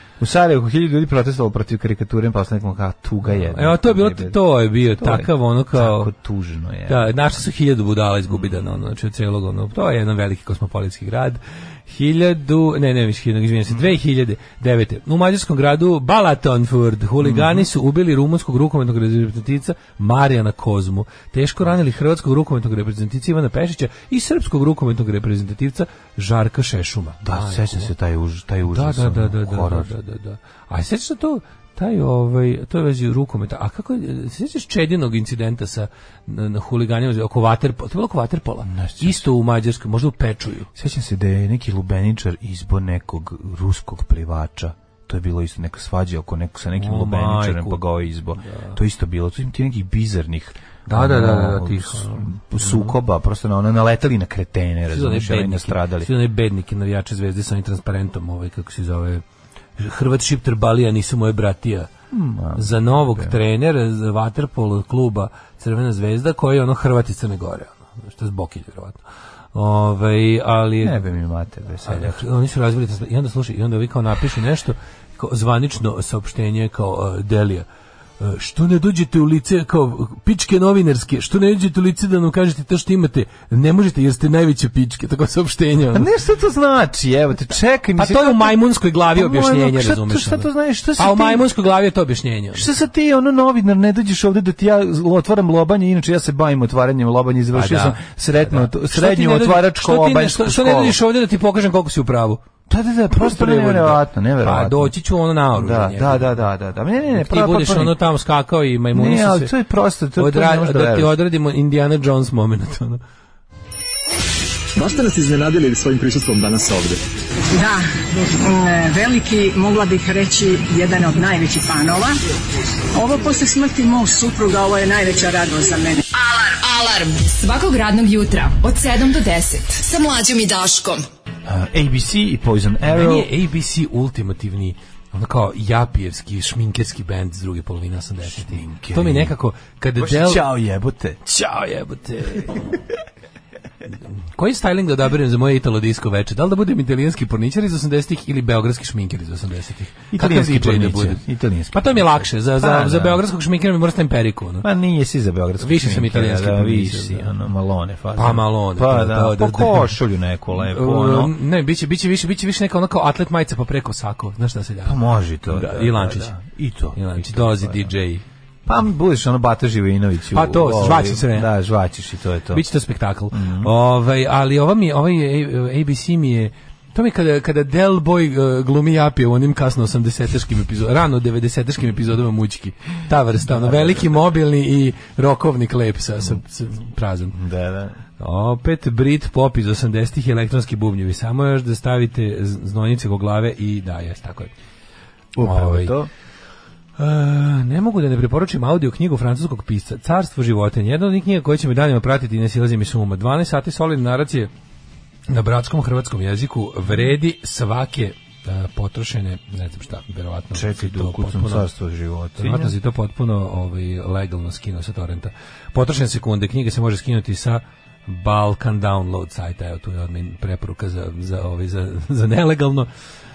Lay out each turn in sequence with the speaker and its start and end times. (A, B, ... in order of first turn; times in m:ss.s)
0:00.2-0:07.2 A
0:03.3-0:06.1 B
0:06.9-0:27.9 B
0:08.3-0:08.8 A
0:17.2-0:17.7 A
0:27.2-0:29.9 A
0:28.7-0:40.7 B
0:38.6-0:39.3 A
0:40.7-0:56.1 A
0:46.8-0:47.8 B
0:48.4-0:48.8 B
0:50.9-0:52.9 B
0:54.9-0:59.2 B
0:59.8-1:01.9 B
1:02.1-1:03.4 A
1:02.6-1:09.0 B
1:09.5-1:11.0 B
1:10.8-1:12.2 A
1:11.8-1:17.6 B
1:18.2-1:26.1 B
1:25.9-1:28.6 A
1:28.0-1:32.7 B
1:29.1-1:31.5 A
1:32.5-1:41.0 A
1:37.5-1:42.4 B
1:42.7-1:44.9 A
1:43.1-1:46.3 B
1:45.5-1:48.0 A
1:47.1-1:49.5 B
1:48.9-1:51.1 A
1:50.2-1:53.0 B
1:54.7-1:57.0 C
1:57.5-2:02.2 D
2:02.9-2:06.0 D
2:06.1-2:11.1 E
2:11.5-2:13.3 A
2:12.9-2:20.4 B
2:18.2-2:19.3 A
2:20.0-2:21.2 A
2:21.2-2:22.7 B
2:24.3-2:34.7 B
2:30.1-2:33.2 A
2:34.6-2:41.3 A
2:35.6-2:37.3 B
2:38.2-2:39.9 B
2:40.6-2:46.3 B
2:44.8-2:47.9 A
2:46.9-2:48.2 B
2:48.6-2:52.6 A
2:50.3-2:51.5 B
2:52.5-3:07.3 B
2:53.3-2:53.7 A
3:03.5-3:04.1 A
3:07.3-3:08.0 A
3:08.2-3:14.5 B
3:15.3-3:16.1 A
3:15.4-3:15.9 B
3:17.0-3:24.5 B
3:25.3-3:31.7 B
3:30.5-3:32.7 A
3:32.4-3:42.9 B